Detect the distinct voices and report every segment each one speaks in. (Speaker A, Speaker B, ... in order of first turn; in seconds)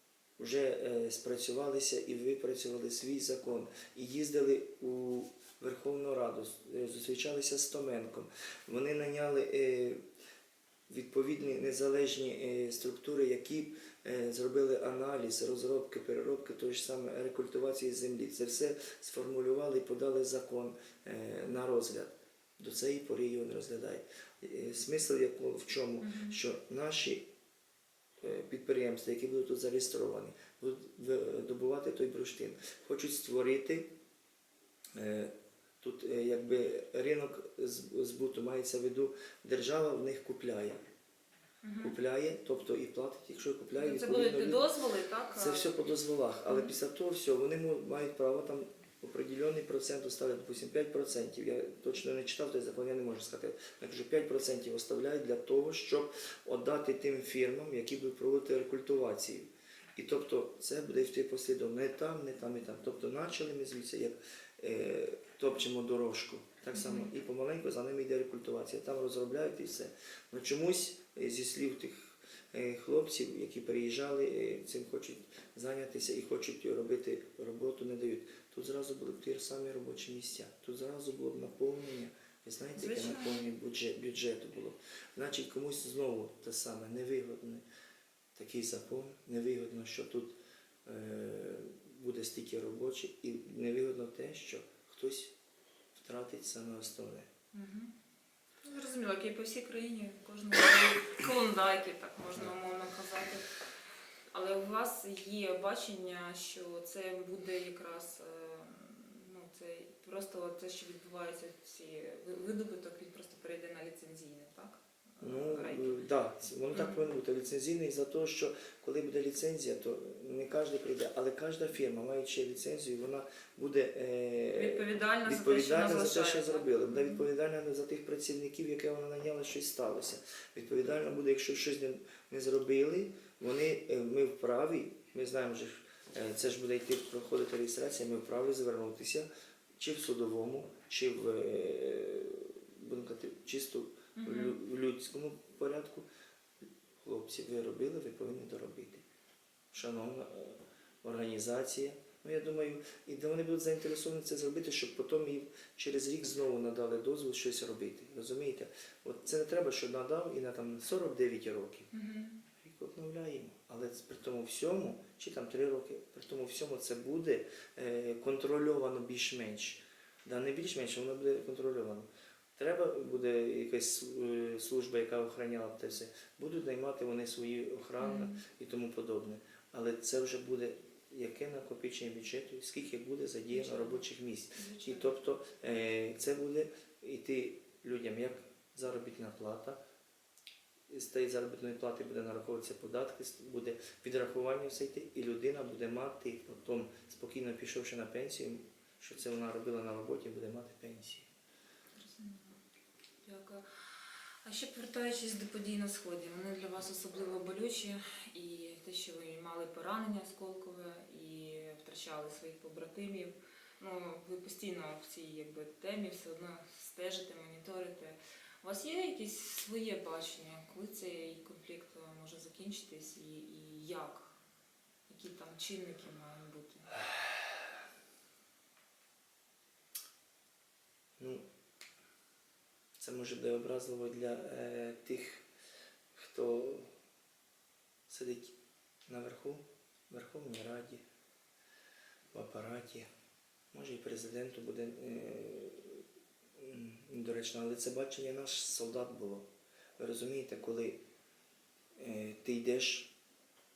Speaker A: 0.4-10.0, 10.9-27.2, 28.2-33.9, 35.0-40.8, 41.8-44.6, 45.3-87.6, 88.3-95.3, 95.9-97.3, 115.2-146.1, 147.0-149.0, 149.7-161.9, 162.6-189.8, 190.9-201.3, 231.2-231.4, 233.0-235.4, 236.1-236.9, 238.1-238.5, 239.1-241.0, 242.3-243.1, 243.7-246.0, 246.6-249.5, 250.0-251.0, 252.0-253.1
Speaker B: 26.0-26.4, 41.6-41.9, 43.8-45.7, 46.5-46.7, 66.7-67.1, 82.8-83.5, 97.5-97.9, 98.6-103.4, 104.3-116.0, 116.7-117.1, 124.5-127.2, 144.2-144.6, 161.9-162.4, 178.0-178.4, 183.5-184.0, 184.6-185.1, 201.9-202.6, 203.2-203.6, 204.4-224.3, 225.1-227.0